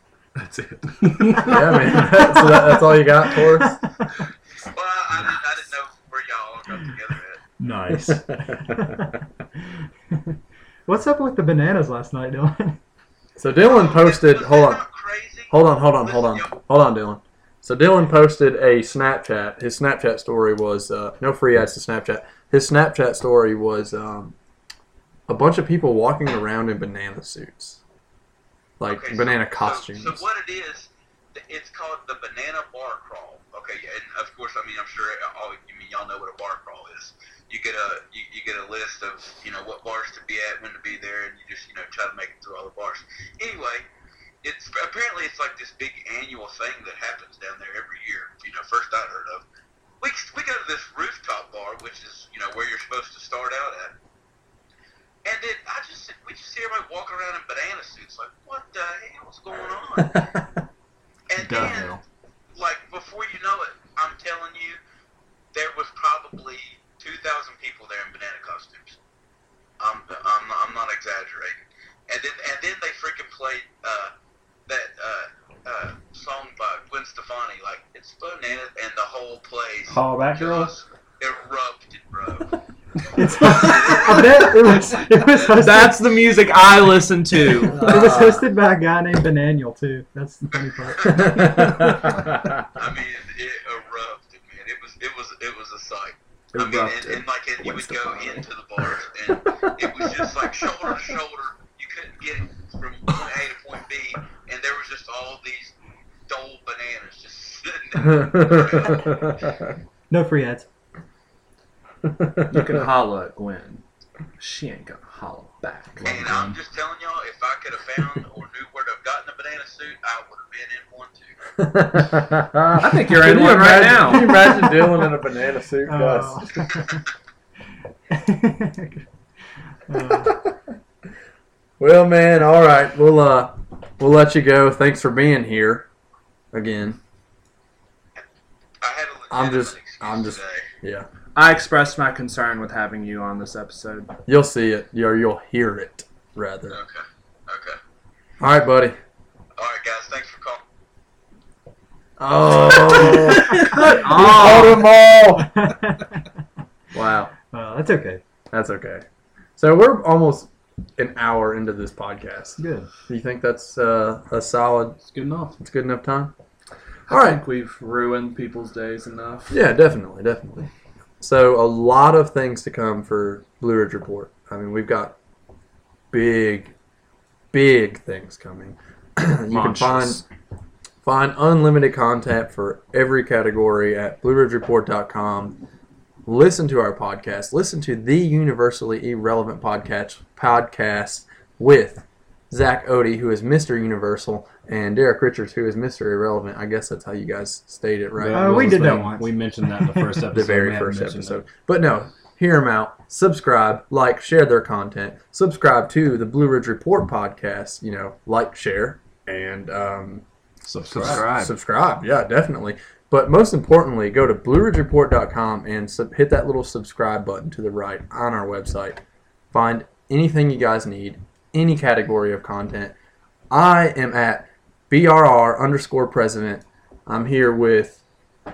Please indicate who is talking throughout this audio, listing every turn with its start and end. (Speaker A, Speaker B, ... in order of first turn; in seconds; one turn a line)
Speaker A: 1.2-3.8
Speaker B: 2.0-2.4
Speaker C: 4.6-7.4
Speaker B: 7.6-9.1
Speaker B: 10.9-12.8
Speaker A: 13.4-14.8
Speaker C: 13.6-16.6
Speaker A: 15.5-24.3
Speaker A: 25.3-27.8
Speaker A: 28.8-30.2
Speaker C: 28.8-43.9
Speaker C: 44.4-49.5
Speaker C: 50.0-53.9
Speaker C: 55.2-60.3
Speaker A: 60.0-60.5
Speaker C: 61.3-62.0
Speaker D: 61.4-62.0
Speaker E: 61.5-61.9
Speaker C: 62.5-64.8
Speaker C: 65.5-69.0
Speaker C: 69.8-74.1
Speaker C: 74.7-82.5
Speaker E: 79.9-80.7
Speaker B: 83.1-86.0
Speaker C: 83.2-85.6
Speaker D: 85.5-87.9
Speaker A: 87.6-88.5
Speaker B: 87.7-91.9
Speaker C: 91.0-91.4
Speaker A: 91.0-92.6
Speaker C: 92.7-105.7
Speaker E: 96.5-97.2
Speaker E: 97.8-98.4
Speaker C: 106.3-109.3
Speaker A: 108.0-109.7
Speaker B: 110.1-110.7
Speaker A: 112.0-112.9
Speaker D: 112.5-113.8
Speaker D: 114.4-116.1
Speaker E: 116.0-116.6
Speaker C: 116.0-121.3
Speaker A: 121.6-126.7
Speaker E: 122.7-124.4
Speaker D: 123.1-124.0
Speaker B: 124.5-124.9
Speaker B: 125.8-127.0
Speaker B: 128.1-129.0
Speaker B: 129.9-130.4
Speaker A: 130.0-130.5
Speaker A: 131.8-135.9
Speaker A: 136.5-137.0
Speaker C: 138.8-140.6
Speaker A: 139.3-141.1
Speaker D: 141.3-144.1
Speaker A: 144.3-146.8
Speaker C: 146.7-147.8
Speaker A: 148.4-148.9
Speaker C: 149.6-150.6
Speaker A: 152.2-155.7
Speaker D: 153.2-154.9
Speaker B: 155.4-156.1
Speaker A: 156.9-157.3
Speaker B: 157.5-158.2
Speaker A: 158.5-159.1
Speaker A: 159.6-165.0
Speaker B: 162.6-162.9
Speaker E: 165.0-165.6
Speaker A: 165.6-166.3
Speaker D: 167.1-169.6
Speaker A: 167.1-167.4
Speaker A: 169.5-170.7
Speaker A: 171.2-175.1
Speaker A: 176.1-176.7
Speaker A: 177.5-180.2
Speaker D: 179.5-180.2
Speaker A: 181.0-185.6
Speaker A: 186.3-199.0
Speaker E: 198.2-201.4
Speaker B: 198.3-200.2
Speaker A: 200.3-210.2
Speaker E: 210.6-211.3
Speaker D: 210.9-211.5
Speaker A: 210.9-222.9
Speaker A: 223.5-228.0